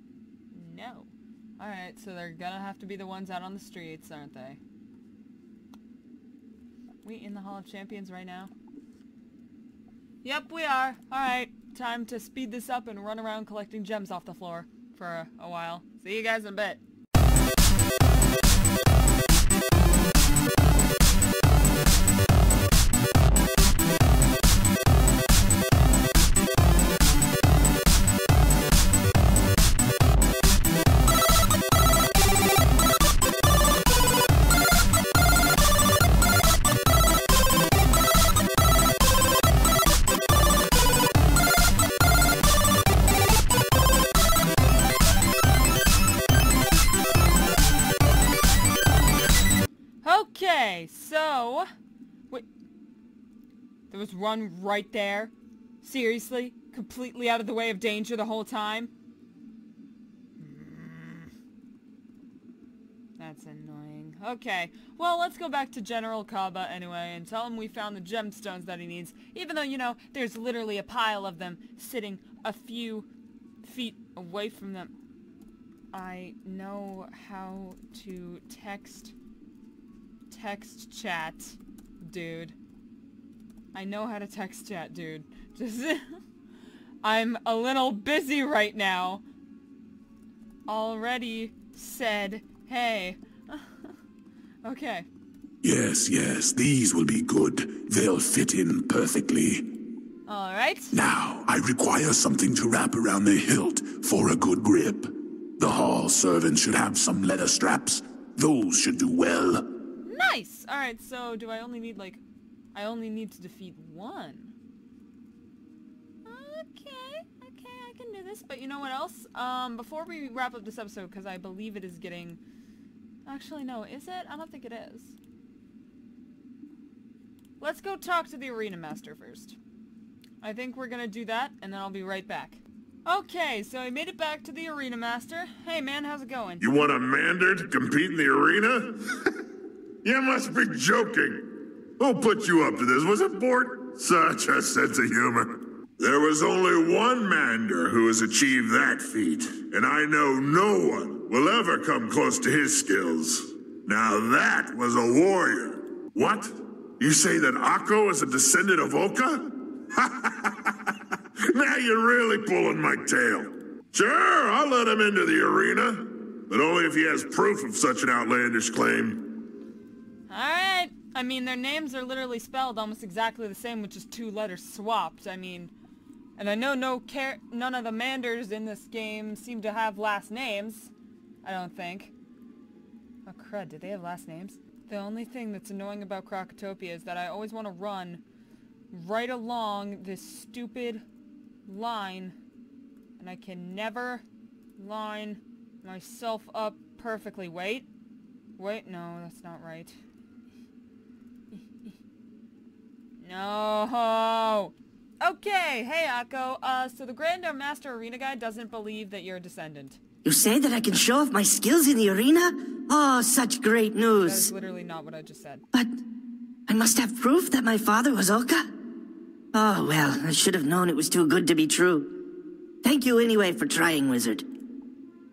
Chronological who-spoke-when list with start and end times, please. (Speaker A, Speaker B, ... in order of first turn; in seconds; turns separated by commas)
Speaker A: 0.5-4.6, Speaker A: 7.0-8.5, Speaker A: 10.2-16.8, Speaker A: 50.0-51.7, Speaker A: 53.9-58.9, Speaker A: 60.4-61.3, Speaker A: 63.2-73.1, Speaker A: 73.6-74.9, Speaker A: 75.9-79.1, Speaker A: 80.3-82.5, Speaker A: 83.7-86.2, Speaker A: 87.0-89.2, Speaker A: 90.7-93.9, Speaker A: 94.6-95.1, Speaker B: 95.6-99.7, Speaker A: 100.2-100.9, Speaker B: 100.9-109.6, Speaker A: 110.0-112.2, Speaker A: 112.7-114.5, Speaker A: 116.2-122.4, Speaker A: 123.2-125.2, Speaker A: 127.6-129.6, Speaker A: 130.4-136.6, Speaker C: 136.6-139.2, Speaker C: 140.0-160.9, Speaker C: 161.5-169.3, Speaker A: 170.3-175.7, Speaker A: 176.4-180.9, Speaker A: 181.4-182.1, Speaker A: 183.2-188.2, Speaker A: 188.9-191.0, Speaker A: 191.7-192.3, Speaker A: 193.2-194.2, Speaker A: 194.8-197.9, Speaker A: 198.6-200.0, Speaker A: 203.2-210.0, Speaker D: 210.2-214.5, Speaker A: 214.2-215.6, Speaker D: 216.7-218.7, Speaker D: 219.5-224.5